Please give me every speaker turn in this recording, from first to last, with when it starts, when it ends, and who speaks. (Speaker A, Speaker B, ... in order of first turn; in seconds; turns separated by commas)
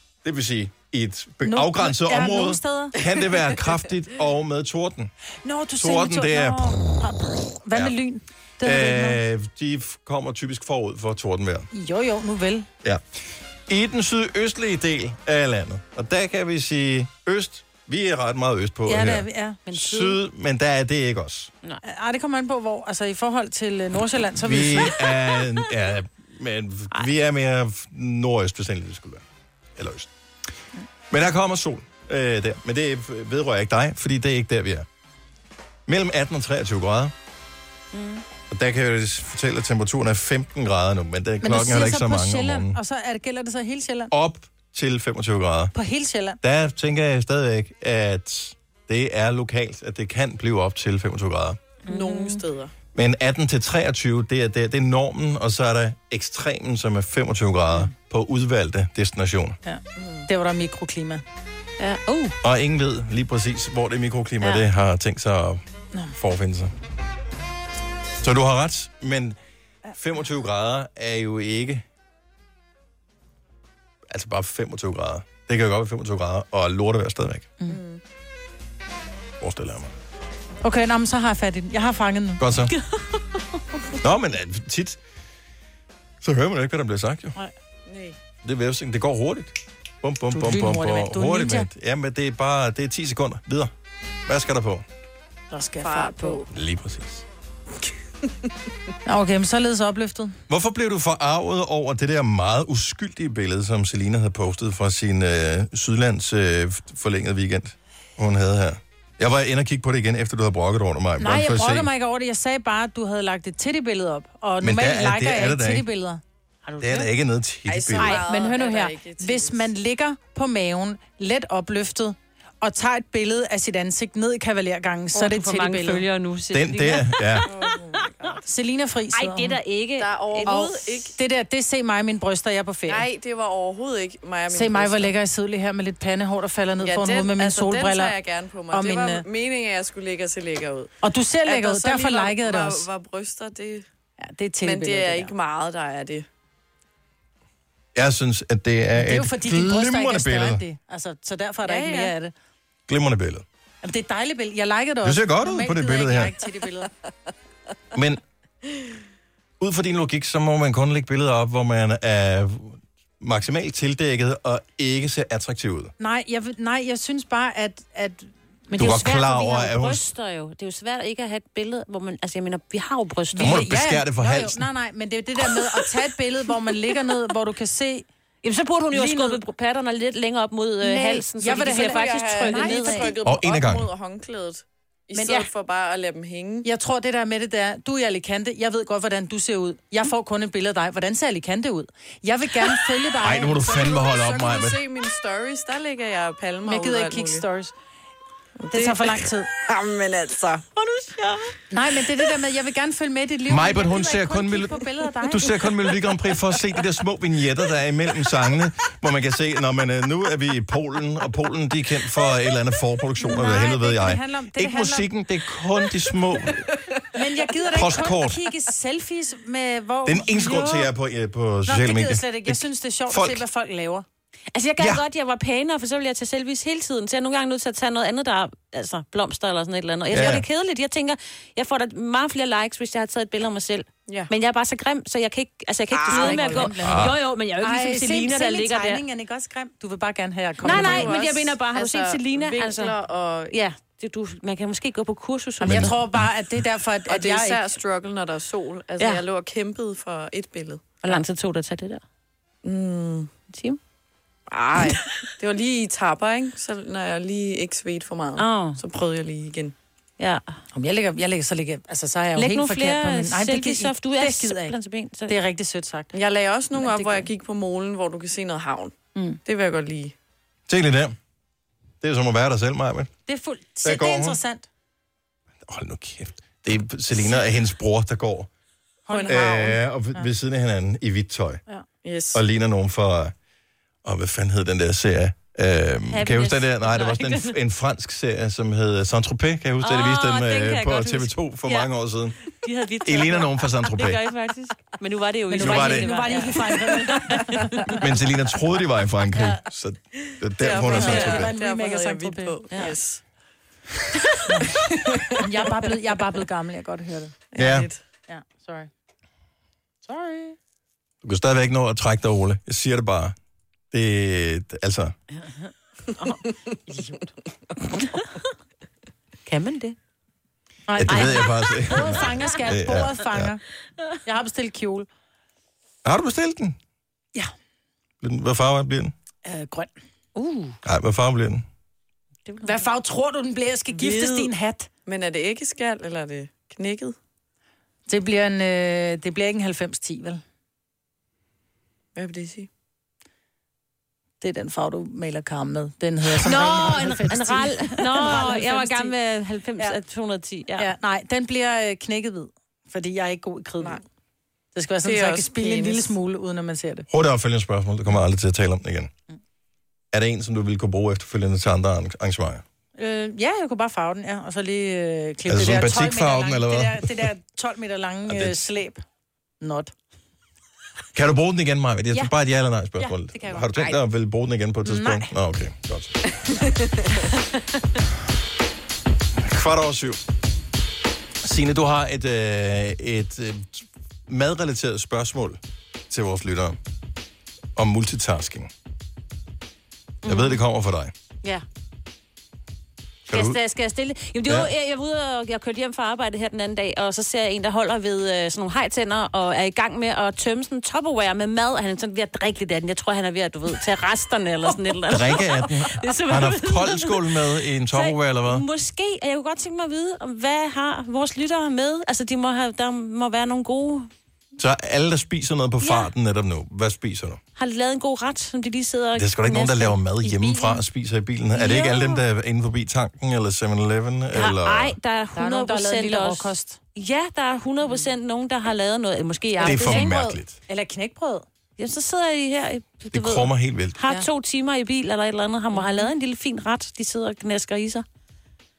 Speaker A: 0.2-5.1, Speaker B: 1.4-3.0, Speaker B: 5.4-9.2, Speaker A: 5.8-6.8, Speaker A: 8.6-11.7, Speaker B: 11.7-12.7, Speaker A: 13.7-21.5, Speaker B: 18.9-19.6, Speaker C: 19.7-20.2, Speaker B: 21.8-25.0, Speaker A: 24.3-29.2, Speaker A: 29.8-30.1, Speaker A: 31.1-34.9, Speaker A: 35.9-37.1, Speaker C: 37.9-38.2, Speaker A: 38.5-42.8, Speaker B: 41.4-44.1, Speaker A: 44.1-45.7, Speaker B: 45.7-46.4, Speaker A: 46.4-51.6, Speaker C: 51.9-52.4, Speaker D: 51.9-52.7, Speaker A: 52.9-59.6, Speaker B: 59.6-61.2, Speaker D: 60.0-60.3, Speaker C: 61.8-62.4, Speaker A: 62.4-65.6, Speaker A: 66.1-66.7, Speaker A: 68.2-69.4, Speaker A: 69.9-71.8, Speaker A: 74.1-77.5, Speaker D: 77.7-78.0, Speaker A: 79.4-79.9, Speaker B: 80.6-82.4, Speaker A: 82.4-82.7, Speaker C: 82.9-83.2, Speaker A: 84.0-85.0, Speaker A: 86.2-87.3, Speaker D: 87.9-88.2, Speaker A: 88.4-93.7, Speaker B: 90.3-91.7, Speaker A: 94.2-94.8, Speaker B: 95.5-96.4, Speaker D: 95.8-96.5, Speaker A: 96.5-97.2, Speaker B: 99.0-100.3, Speaker A: 100.5-111.9, Speaker B: 111.2-116.2, Speaker A: 114.6-115.9, Speaker C: 116.6-117.1, Speaker A: 116.8-118.2, Speaker D: 117.7-119.7, Speaker B: 118.0-126.0, Speaker C: 125.1-127.7, Speaker A: 126.5-127.5, Speaker D: 127.5-128.5, Speaker B: 128.5-129.6, Speaker C: 129.1-131.1, Speaker D: 130.0-131.2, Speaker B: 130.5-133.0, Speaker D: 132.9-135.1, Speaker B: 134.5-138.1, Speaker D: 136.8-140.9, Speaker B: 138.7-139.2, Speaker B: 141.0-142.8, Speaker D: 141.4-143.8, Speaker B: 144.2-145.3, Speaker D: 144.6-146.2, Speaker A: 147.9-150.6, Speaker B: 148.9-152.3, Speaker D: 151.6-152.1, Speaker A: 152.9-153.4, Speaker B: 153.8-156.9, Speaker A: 155.0-156.3, Speaker A: 157.9-158.2, Speaker A: 159.6-165.9, Speaker B: 166.0-169.3, Speaker C: 168.7-173.6, Speaker A: 168.8-170.0, Speaker B: 173.3-178.1, Speaker A: 173.4-174.6, Speaker C: 178.4-183.2, Speaker B: 178.9-179.4, Speaker B: 180.8-183.1, Speaker D: 181.4-186.7, Speaker A: 183.2-183.9, Speaker C: 185.2-185.5, Speaker B: 186.6-193.6, Speaker A: 193.2-194.8, Speaker D: 193.4-197.4, Speaker B: 196.6-197.7, Speaker D: 198.6-200.6, Speaker B: 198.7-199.5, Speaker C: 200.8-201.6, Speaker B: 201.7-205.6, Speaker A: 203.5-216.7, Speaker B: 213.2-215.1, Speaker B: 217.1-220.9, Speaker A: 217.7-218.5, Speaker A: 220.1-223.4, Speaker B: 221.7-224.0, Speaker C: 224.5-239.0, Speaker A: 224.8-225.0, Speaker A: 230.1-230.4, Speaker D: 235.9-236.7, Speaker B: 236.1-241.2, Speaker A: 236.8-237.2, Speaker D: 240.6-243.6, Speaker C: 240.6-243.0, Speaker C: 243.5-246.0, Speaker B: 245.6-247.6, Speaker A: 245.6-246.3, Speaker D: 247.1-251.0, Speaker C: 249.0-249.2, Speaker C: 251.0-252.0, Speaker D: 252.6-253.3, Speaker C: 253.5-253.8, Speaker D: 254.5-259.7, Speaker C: 258.4-258.8, Speaker C: 260.2-260.5, Speaker B: 260.7-264.7, Speaker C: 262.4-265.4, Speaker B: 265.3-266.1, Speaker D: 266.1-270.1, Speaker B: 266.7-267.3, Speaker A: 270.7-271.1, Speaker A: 272.0-273.1, Speaker B: 273.3-274.7, Speaker A: 273.8-274.4, Speaker A: 275.6-278.5, Speaker B: 279.1-280.3, Speaker D: 279.1-279.8, Speaker A: 279.3-281.6, Speaker D: 282.0-282.4, Speaker A: 282.3-283.3, Speaker A: 284.0-292.4, Speaker C: 286.1-287.6, Speaker C: 289.8-291.9, Speaker C: 292.5-298.0, Speaker A: 293.0-294.2, Speaker B: 295.5-297.6, Speaker A: 295.6-296.1, Speaker A: 297.9-301.5, Speaker D: 300.3-303.2, Speaker B: 300.9-302.6, Speaker C: 301.0-301.4, Speaker B: 304.5-304.7, Speaker D: 304.6-305.7, Speaker B: 305.3-307.3, Speaker D: 307.5-308.0, Speaker A: 307.6-307.9, Speaker B: 308.3-308.9, Speaker B: 310.0-310.6, Speaker A: 311.2-313.3, Speaker A: 313.9-315.1, Speaker B: 316.9-317.1, Speaker C: 319.4-319.9, Speaker B: 320.9-323.6, Speaker A: 321.0-323.6, Speaker C: 321.1-321.5, Speaker B: 324.2-325.1, Speaker A: 326.0-326.8, Speaker A: 328.2-329.1, Speaker B: 329.4-329.9, Speaker B: 330.4-330.7, Speaker A: 330.8-331.6, Speaker B: 332.6-334.9, Speaker D: 333.9-334.5, Speaker D: 335.1-337.1, Speaker B: 338.1-340.4, Speaker D: 342.1-342.7, Speaker B: 344.4-349.1, Speaker C: 346.4-350.9, Speaker B: 350.8-354.0, Speaker B: 354.7-357.1, Speaker D: 355.0-356.1, Speaker A: 357.1-359.1, Speaker A: 360.1-362.6, Speaker B: 363.0-369.0, Speaker A: 365.5-367.3, Speaker A: 368.3-368.6, Speaker B: 369.6-369.9, Speaker A: 371.1-376.4, Speaker B: 373.0-374.0, Speaker B: 374.8-375.3, Speaker A: 379.3-380.2, Speaker A: 381.4-385.6, Speaker A: 386.1-386.8, Speaker A: 387.8-388.7, Speaker C: 390.2-390.6, Speaker A: 390.2-391.1, Speaker A: 393.3-393.6, Speaker C: 393.3-407.4, Speaker A: 394.4-394.7, Speaker A: 405.1-408.6, Speaker C: 407.9-414.1, Speaker A: 414.6-417.4, Speaker C: 415.8-416.1, Speaker C: 417.6-420.7, Speaker A: 419.1-425.0, Speaker C: 421.5-422.2, Speaker C: 424.3-430.4, Speaker B: 425.3-426.8, Speaker B: 429.6-431.4, Speaker A: 429.6-430.6, Speaker C: 431.8-438.0, Speaker A: 433.1-434.0